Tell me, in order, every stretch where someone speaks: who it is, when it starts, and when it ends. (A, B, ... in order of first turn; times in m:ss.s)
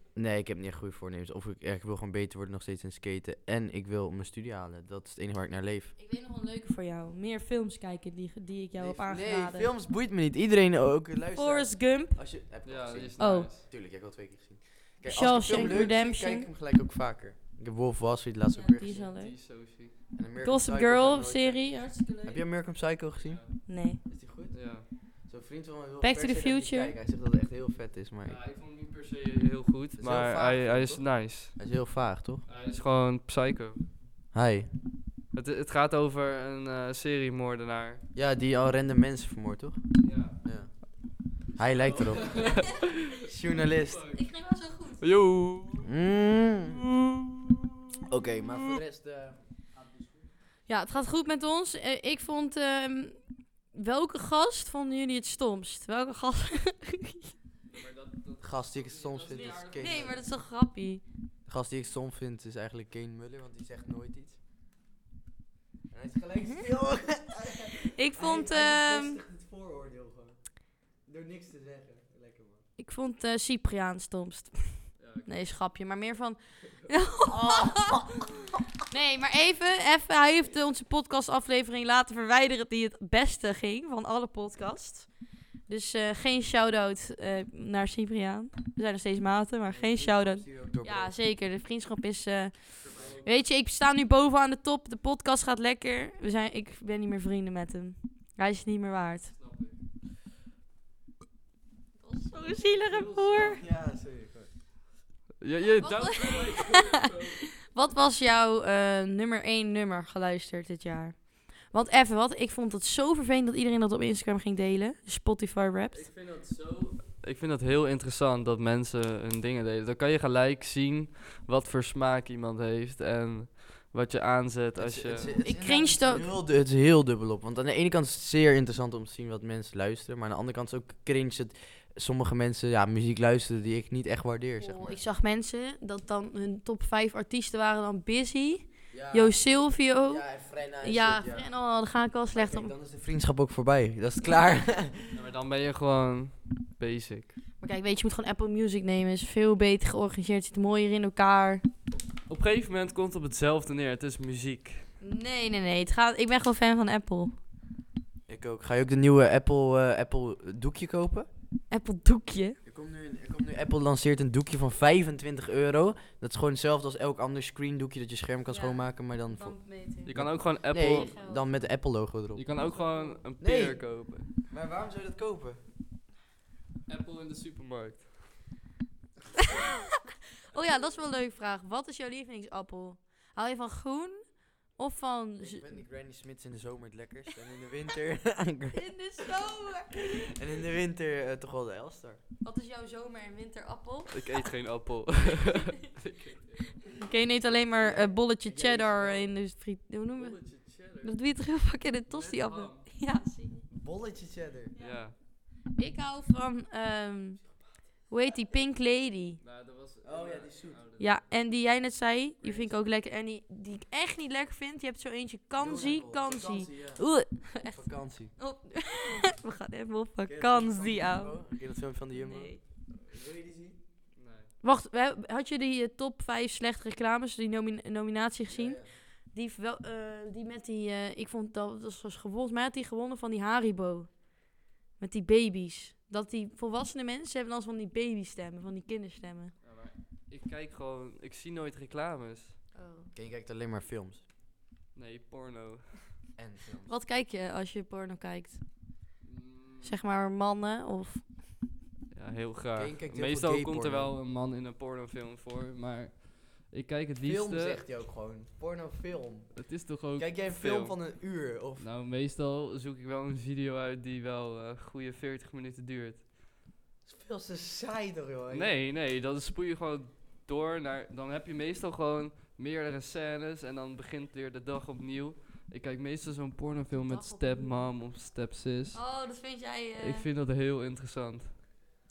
0:00.1-0:05.9 A
0:06.0-0:09.7 B
0:08.8-0:19.0 A
0:11.3-0:12.2 B
0:12.6-0:13.6 C
0:13.2-0:13.5 B
0:15.0-0:16.5 B
0:18.5-0:19.4 B
0:18.9-0:19.9 C
0:20.1-0:28.4 A
0:20.4-0:22.4 B
0:23.2-0:23.6 C
0:23.6-0:24.0 B
0:24.5-0:24.9 C
0:26.0-0:27.0 B
0:28.2-0:31.5 C
0:30.0-0:32.4 A
0:32.4-0:33.8 C
0:34.3-0:34.7 A
0:35.3-0:38.0 C
0:38.1-0:40.8 A
0:40.0-0:40.4 C
0:41.5-0:44.0 A
0:41.6-0:43.1 C
0:42.4-0:42.9 B
0:43.7-0:44.2 C
0:44.1-0:45.2 B
0:45.0-0:45.9 C
0:45.8-0:46.8 A
0:48.1-0:50.2 A
0:50.7-0:57.3 B
0:57.7-1:00.3 C
0:58.4-1:00.2 A
0:59.4-1:01.0 B
1:01.4-1:04.4 A
1:05.9-1:10.4 A
1:07.8-1:09.2 B
1:11.0-1:12.6 A
1:12.8-1:18.0 B
1:15.0-1:15.4 C
1:17.2-1:18.4 A
1:18.9-1:25.1 B
1:25.7-1:39.3 B
1:29.7-1:31.1 A
1:32.8-1:33.4 C
1:39.3-1:39.8 C
1:42.0-1:43.6 B
1:42.5-1:43.6 C
1:43.6-1:44.5 A
1:45.4-1:47.5 C
1:45.8-1:56.1 B
1:55.9-2:05.3 C
2:04.7-2:15.0 A
2:05.3-2:06.3 B
2:14.6-2:22.7 B
2:18.9-2:21.5 A
2:22.3-2:25.2 A
2:25.1-2:27.3 C
2:27.6-2:31.6 B
2:32.3-2:34.9 C
2:35.0-2:37.3 B
2:38.3-2:41.3 A
2:41.7-2:42.6 B
2:42.6-2:52.4 A
2:48.5-2:51.5 B
2:50.0-2:51.1 C
2:52.3-2:54.3 C
2:52.6-2:53.2 B
2:53.4-2:55.6 A
2:56.9-2:58.1 C
3:00.5-3:05.7 B
3:05.4-3:09.3 A
3:08.7-3:10.2 B
3:10.2-3:12.2 A
3:12.4-3:14.4 B
3:14.1-3:16.8 C
3:16.9-3:23.7 B
3:17.8-3:19.3 A
3:20.2-3:21.1 C
3:22.1-3:22.8 C
3:23.7-3:24.7 A
3:24.7-3:25.0 B
3:24.8-3:25.1 C
3:25.7-3:27.5 B
3:28.1-3:29.4 B
3:29.4-3:31.2 C
3:30.0-3:30.8 A
3:31.0-3:41.4 B
3:32.4-3:32.8 C
3:35.6-3:37.0 A
3:37.6-3:38.3 A
3:40.2-3:43.8 A
3:42.1-3:42.6 B
3:44.1-3:44.5 C
3:44.6-3:59.5 B
3:48.5-3:48.9 A
3:59.6-4:02.6 C
4:02.7-4:03.1 B
4:03.1-4:04.2 A
4:04.9-4:06.1 C
4:06.4-4:07.0 A
4:06.9-4:08.6 B
4:09.2-4:10.0 C
4:09.8-4:11.2 B
4:12.1-4:17.8 C
4:12.8-4:14.1 A
4:17.2-4:21.9 A
4:19.6-4:21.0 C
4:21.8-4:26.2 C
4:27.0-4:28.7 A
4:28.5-4:39.0 C
4:36.9-4:37.9 B
4:38.9-4:40.3 B
4:40.0-4:41.8 C